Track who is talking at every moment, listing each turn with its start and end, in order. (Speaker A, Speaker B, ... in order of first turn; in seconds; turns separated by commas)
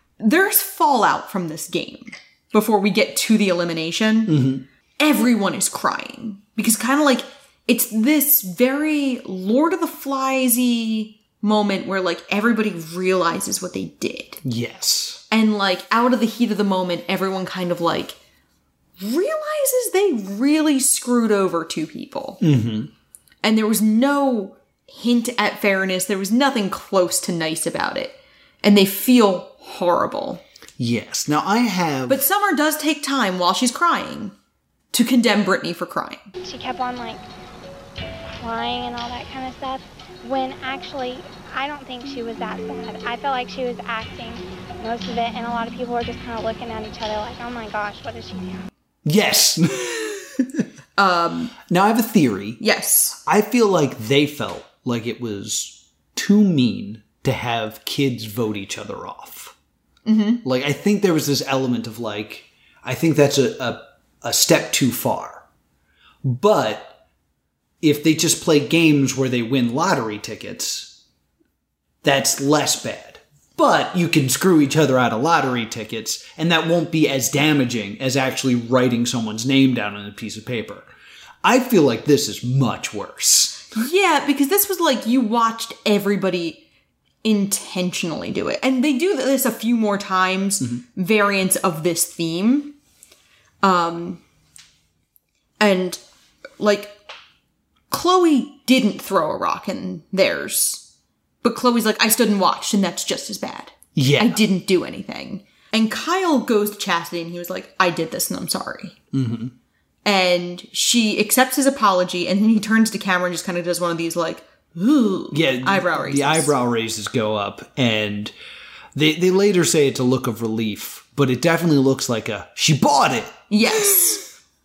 Speaker A: 0.2-4.4, Speaker B: 4.3-4.7, Speaker A: 5.0-14.4, Speaker B: 14.4-15.2, Speaker A: 15.3-18.2, Speaker A: 19.0-22.4, Speaker B: 22.4-22.9, Speaker A: 23.4-30.4, Speaker B: 30.8-32.2, Speaker A: 32.1-34.4, Speaker A: 34.9-36.3, Speaker C: 36.4-37.2, Speaker C: 38.4-48.7, Speaker B: 49.0-50.7, Speaker A: 51.0-51.5, Speaker B: 51.7-52.6, Speaker A: 52.6-53.2, Speaker B: 53.2-59.5, Speaker A: 60.1-60.4, Speaker B: 60.4-65.5, Speaker B: 66.2-66.9, Speaker B: 67.8-71.0, Speaker B: 72.0-80.9, Speaker B: 81.4-83.7, Speaker A: 83.7-86.6, Speaker A: 87.2-92.8, Speaker A: 93.6-94.2, Speaker A: 95.6-96.0, Speaker A: 96.6-97.0, Speaker A: 97.9-100.9, Speaker A: 101.4-109.0, Speaker B: 104.0-104.4, Speaker B: 109.1-109.5, Speaker A: 110.0-116.5, Speaker B: 115.3-118.3, Speaker B: 119.0-123.4, Speaker A: 123.5-124.3